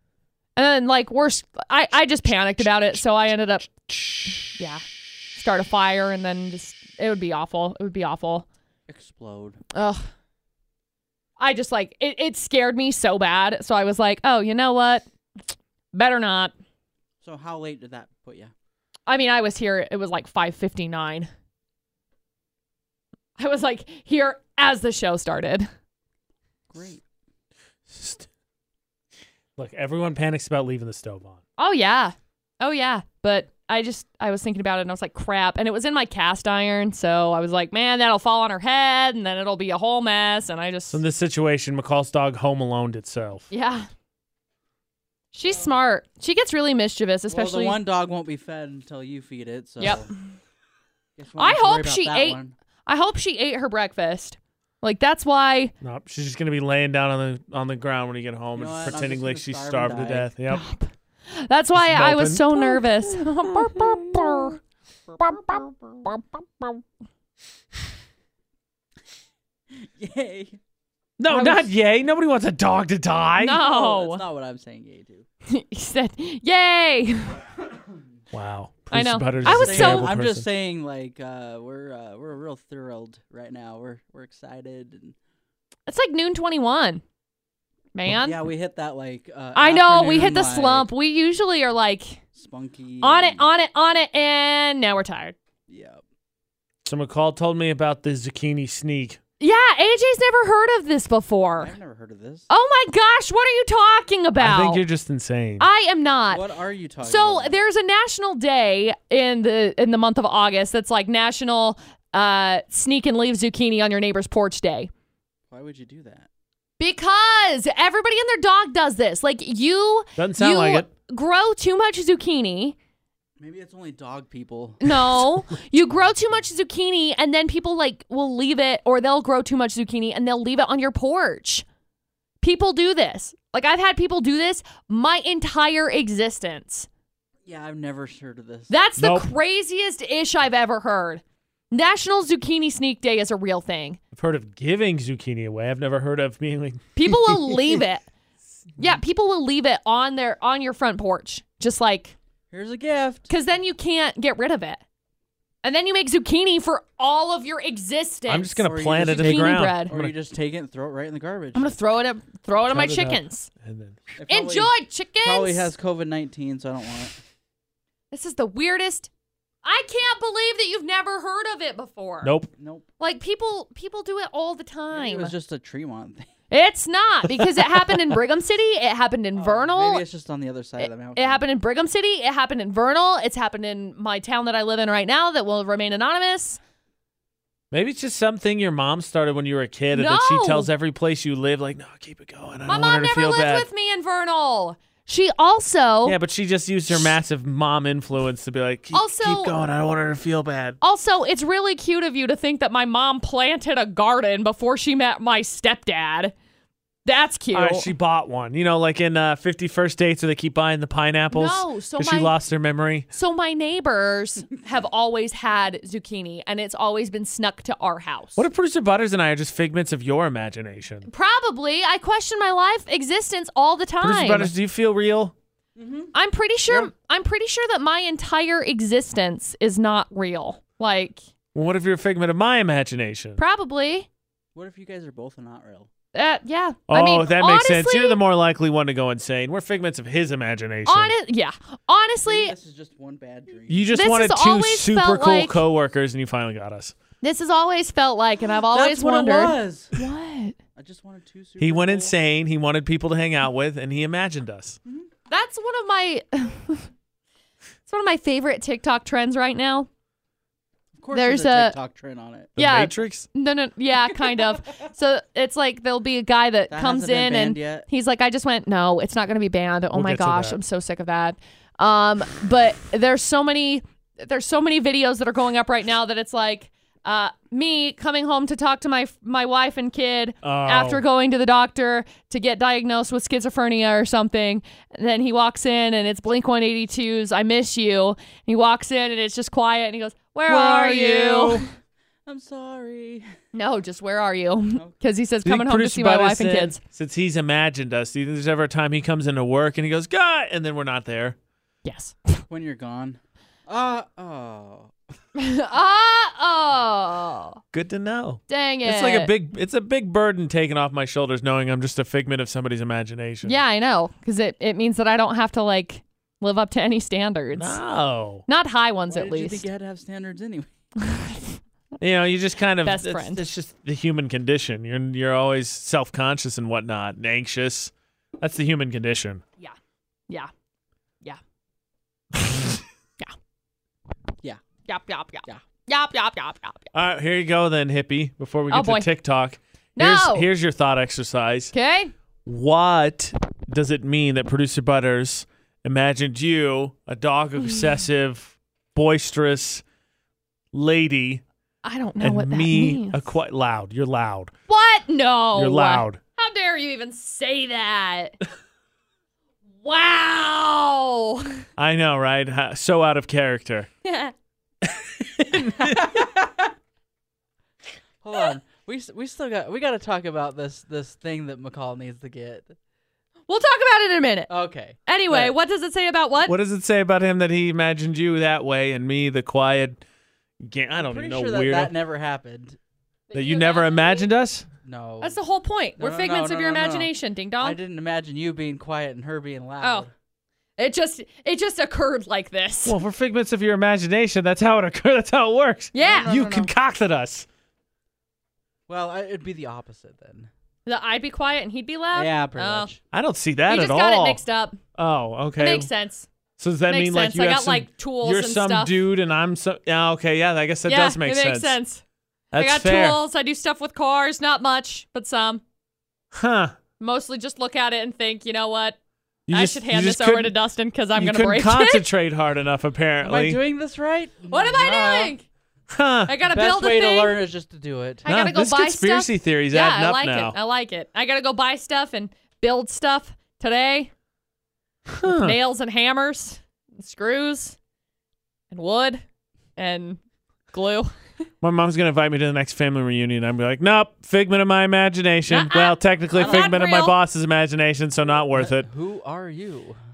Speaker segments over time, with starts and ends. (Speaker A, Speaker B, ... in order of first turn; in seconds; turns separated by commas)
Speaker A: 0.6-4.8, Speaker A: 5.3-8.4, Speaker B: 8.9-9.6, Speaker A: 9.7-10.1, Speaker A: 11.4-15.0, Speaker A: 15.9-16.5, Speaker B: 17.2-18.5, Speaker A: 19.1-21.3, Speaker A: 23.4-25.7, Speaker B: 26.7-27.0, Speaker C: 27.9-28.3, Speaker C: 29.6-31.4, Speaker A: 31.6-41.0, Speaker C: 40.9-43.5, Speaker A: 43.5-43.9, Speaker A: 45.3-47.8, Speaker B: 45.5-45.7, Speaker B: 47.3-50.1, Speaker A: 49.8-50.0, Speaker B: 51.2-52.5, Speaker A: 51.4-55.7, Speaker C: 55.8-60.6, Speaker B: 58.5-60.3, Speaker A: 60.5-64.6, Speaker C: 61.8-64.5, Speaker A: 65.2-66.8, Speaker B: 69.8-70.6, Speaker C: 71.2-73.6, Speaker A: 71.3-71.7, Speaker A: 73.4-74.2, Speaker B: 73.5-75.3, Speaker A: 75.5-77.4, Speaker C: 78.3-80.5, Speaker A: 78.9-80.1, Speaker B: 79.5-85.2, Speaker A: 85.9-87.0, Speaker A: 88.0-88.4, Speaker B: 88.1-90.9, Speaker A: 89.5-92.2, Speaker B: 92.3-93.5, Speaker A: 93.0-95.3, Speaker B: 95.7-96.0, Speaker C: 96.8-99.2, Speaker A: 99.4-101.7, Speaker B: 101.6-102.5, Speaker A: 102.5-104.8, Speaker C: 104.4-105.7, Speaker A: 105.6-106.4, Speaker B: 106.3-107.6, Speaker A: 107.0-114.9, Speaker B: 115.5-116.3, Speaker A: 116.8-122.8, Speaker C: 120.2-120.9, Speaker B: 123.4-125.3, Speaker A: 124.8-131.7, Speaker B: 125.9-126.4, Speaker A: 132.4-136.9, Speaker B: 137.5-138.7, Speaker A: 138.7-144.0, Speaker C: 139.0-139.3, Speaker C: 144.2-147.5, Speaker A: 147.0-148.0, Speaker A: 148.8-152.1, Speaker B: 152.5-153.3, Speaker A: 153.3-154.8, Speaker A: 155.6-159.9, Speaker C: 158.3-160.1, Speaker B: 158.6-161.8, Speaker A: 161.5-163.5, Speaker C: 162.7-164.0, Speaker B: 164.1-167.2, Speaker A: 164.3-165.7, Speaker A: 168.1-169.1, Speaker A: 169.6-172.3, Speaker C: 172.2-172.5, Speaker B: 172.6-172.8, Speaker A: 173.0-175.3, Speaker B: 174.9-176.3, Speaker A: 176.5-180.0, Speaker C: 177.4-177.9, Speaker B: 179.3-181.4, Speaker A: 180.8-186.6, Speaker C: 187.7-193.7, Speaker A: 189.9-190.7, Speaker A: 192.7-196.2, Speaker C: 196.0-200.8, Speaker A: 198.9-199.5, Speaker A: 200.8-206.3, Speaker A: 207.0-207.9, Speaker C: 207.5-213.1, Speaker A: 211.3-212.3, Speaker A: 213.1-218.4, Speaker C: 218.3-221.1, Speaker A: 221.1-224.5, Speaker C: 224.0-225.3, Speaker B: 225.8-226.1, Speaker A: 226.1-231.2, Speaker C: 231.5-233.4, Speaker A: 233.4-234.1, Speaker B: 234.5-235.9, Speaker A: 236.1-238.2, Speaker C: 236.9-241.1, Speaker A: 240.8-242.5, Speaker B: 242.2-243.9, Speaker C: 243.7-246.9, Speaker A: 243.9-245.6, Speaker A: 247.2-250.6, Speaker B: 248.7-250.0, Speaker B: 250.8-252.1, Speaker C: 251.6-254.8, Speaker A: 255.3-256.9, Speaker A: 257.9-259.9, Speaker B: 260.9-262.5, Speaker A: 261.1-261.8, Speaker C: 262.6-263.3, Speaker A: 262.6-291.7, Speaker B: 266.7-267.9, Speaker C: 269.9-270.6, Speaker C: 280.4-281.0, Speaker C: 290.5-291.7, Speaker B: 292.2-293.3, Speaker A: 293.5-296.8, Speaker C: 295.4-301.4, Speaker A: 301.9-302.4, Speaker B: 302.5-304.9, Speaker A: 305.4-307.6, Speaker C: 307.7-313.6, Speaker A: 308.5-309.3, Speaker A: 313.4-317.8, Speaker C: 317.5-318.4, Speaker A: 318.5-319.6, Speaker B: 319.1-320.7, Speaker A: 321.0-321.6, Speaker C: 322.0-329.4, Speaker A: 322.8-323.4, Speaker A: 334.9-336.9, Speaker C: 336.9-341.7, Speaker A: 338.7-339.1, Speaker A: 339.9-340.5, Speaker A: 341.7-342.1, Speaker C: 342.4-349.8, Speaker C: 350.7-351.4, Speaker A: 351.8-353.3, Speaker C: 352.2-354.5, Speaker A: 354.7-358.4, Speaker C: 355.5-356.2, Speaker A: 359.8-361.6, Speaker C: 361.8-363.9, Speaker A: 364.0-364.3, Speaker C: 364.8-366.1, Speaker B: 365.8-366.7, Speaker B: 368.2-372.8, Speaker A: 373.5-374.5, Speaker B: 374.5-375.5, Speaker A: 375.1-376.5, Speaker C: 376.4-380.0, Speaker C: 380.6-381.9, Speaker B: 381.0-382.8, Speaker A: 383.3-384.3, Speaker C: 383.3-384.6, Speaker B: 384.8-385.4, Speaker A: 385.2-387.8, Speaker B: 386.0-390.1, Speaker A: 389.8-390.1, Speaker A: 390.8-393.0, Speaker C: 392.9-397.4, Speaker A: 395.9-396.7, Speaker B: 396.0-396.4, Speaker B: 398.9-400.5, Speaker A: 400.9-402.9, Speaker B: 402.1-403.0, Speaker C: 403.1-404.4, Speaker A: 403.7-404.8, Speaker C: 404.9-405.9, Speaker A: 405.6-406.3, Speaker C: 406.6-411.8, Speaker A: 406.9-409.0, Speaker A: 410.9-412.0, Speaker C: 412.5-413.2, Speaker A: 412.6-415.6, Speaker C: 416.3-416.8, Speaker A: 417.0-419.0, Speaker C: 419.5-420.5, Speaker A: 419.5-422.1, Speaker C: 421.1-423.6, Speaker B: 423.2-425.3, Speaker A: 424.5-425.4, Speaker C: 425.9-426.3, Speaker A: 426.3-427.4, Speaker B: 426.4-428.3, Speaker A: 428.2-434.1, Speaker C: 428.3-430.6, Speaker C: 435.1-435.6, Speaker A: 435.2-437.8, Speaker A: 438.7-439.2, Speaker A: 439.8-440.2, Speaker A: 440.7-441.1, Speaker C: 441.6-448.9, Speaker A: 445.5-447.2, Speaker B: 446.3-446.8, Speaker B: 448.4-450.0